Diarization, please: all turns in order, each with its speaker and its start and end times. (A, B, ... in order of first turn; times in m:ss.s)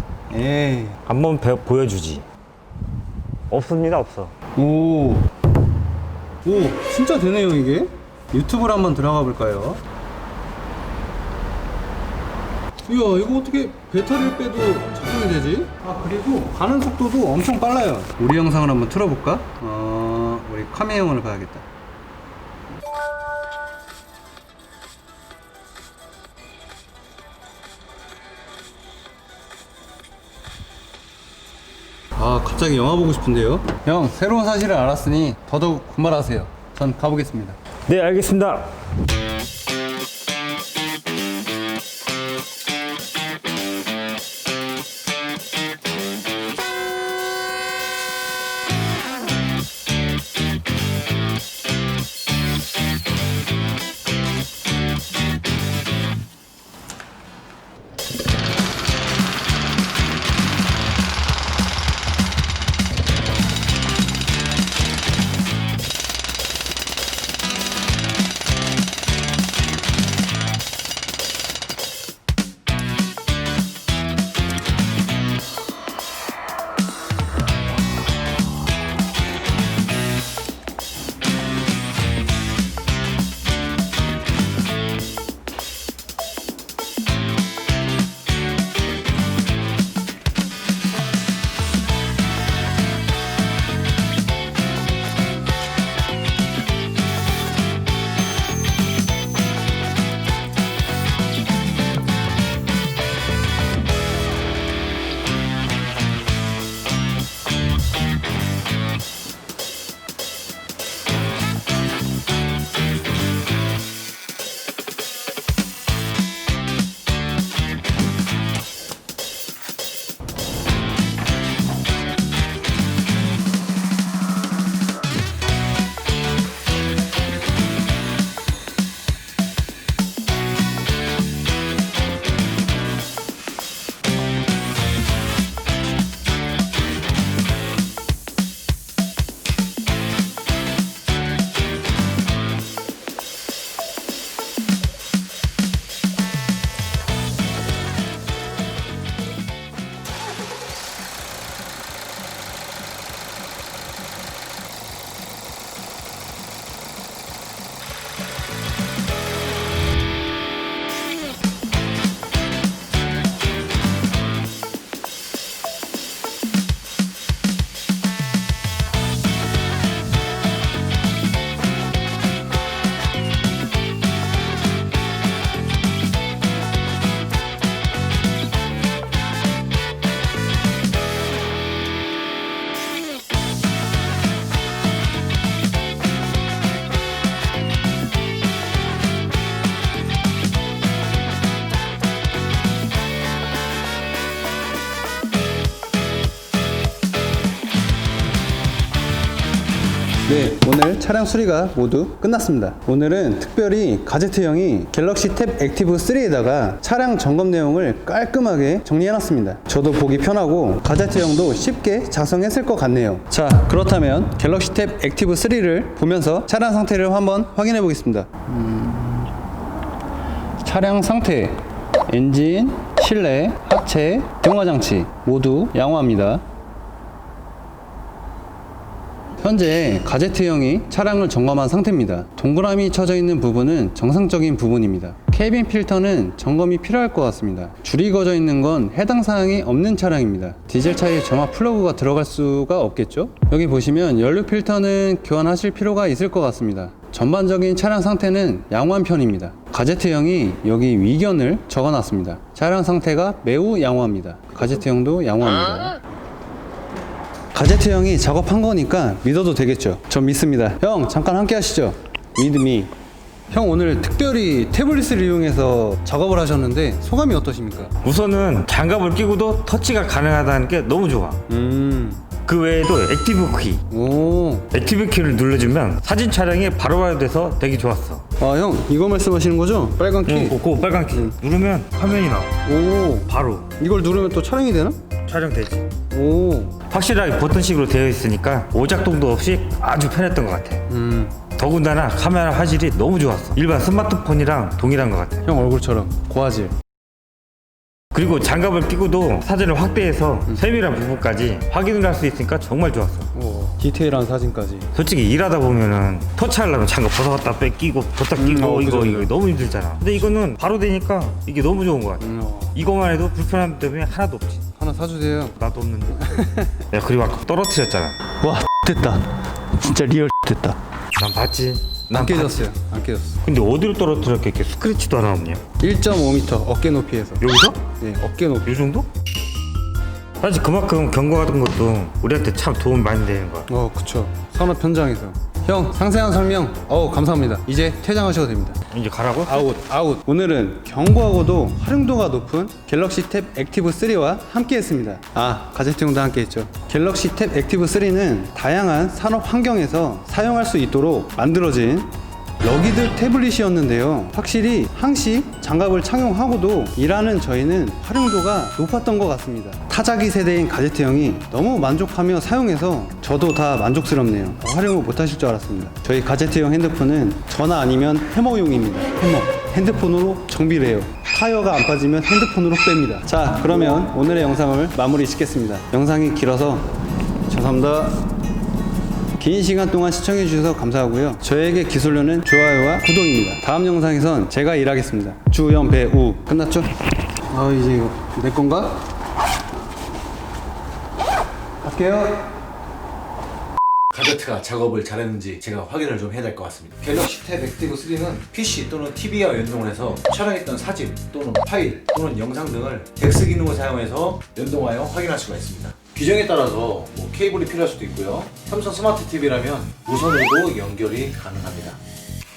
0:00.3-0:01.0 A
0:01.1-0:02.2 B
0:03.5-0:04.3 B
0:04.6-0:05.3 A
0:06.4-0:09.8 A
0:12.9-0:21.6 A
0:32.2-0:37.6 A
0:37.9-0:38.7 B
3:20.3-3:39.3 A
3:40.6-3:46.4 A
3:49.4-4:16.0 A
4:17.5-4:22.9 A
4:23.5-4:27.9 A
4:28.0-4:31.4 B
4:31.5-4:32.2 A
4:32.4-4:33.8 B
4:33.9-4:34.7 A
4:34.7-4:38.2 B
4:38.4-4:40.6 A
4:40.3-4:42.5 B
4:42.6-4:45.0 A
4:43.3-4:43.7 B
4:45.3-4:45.9 B
4:46.1-4:46.8 A
4:46.9-4:50.8 B
4:50.9-4:51.4 A
4:51.6-4:55.5 B
4:55.4-4:56.7 A
4:58.1-5:03.3 B
5:03.3-5:04.9 A
5:05.0-5:14.6 B
5:08.4-5:09.3 A
5:12.2-5:12.7 A
5:14.8-5:15.6 A
5:15.6-5:18.2 B
5:16.3-5:16.7 A
5:18.4-5:20.8 A
5:21.2-5:22.6 B
5:22.1-5:23.4 A
5:23.4-5:25.6 B
5:25.8-5:28.7 A
5:27.4-5:27.8 B
5:28.7-5:29.1 B
5:30.4-5:33.7 B
5:33.7-5:38.8 A
5:38.9-5:39.6 B
5:39.5-6:16.9 A
6:17.5-6:18.3 A
6:19.4-6:26.9 A
6:27.5-6:29.0 A
6:31.8-6:32.5 A
6:34.1-6:52.0 C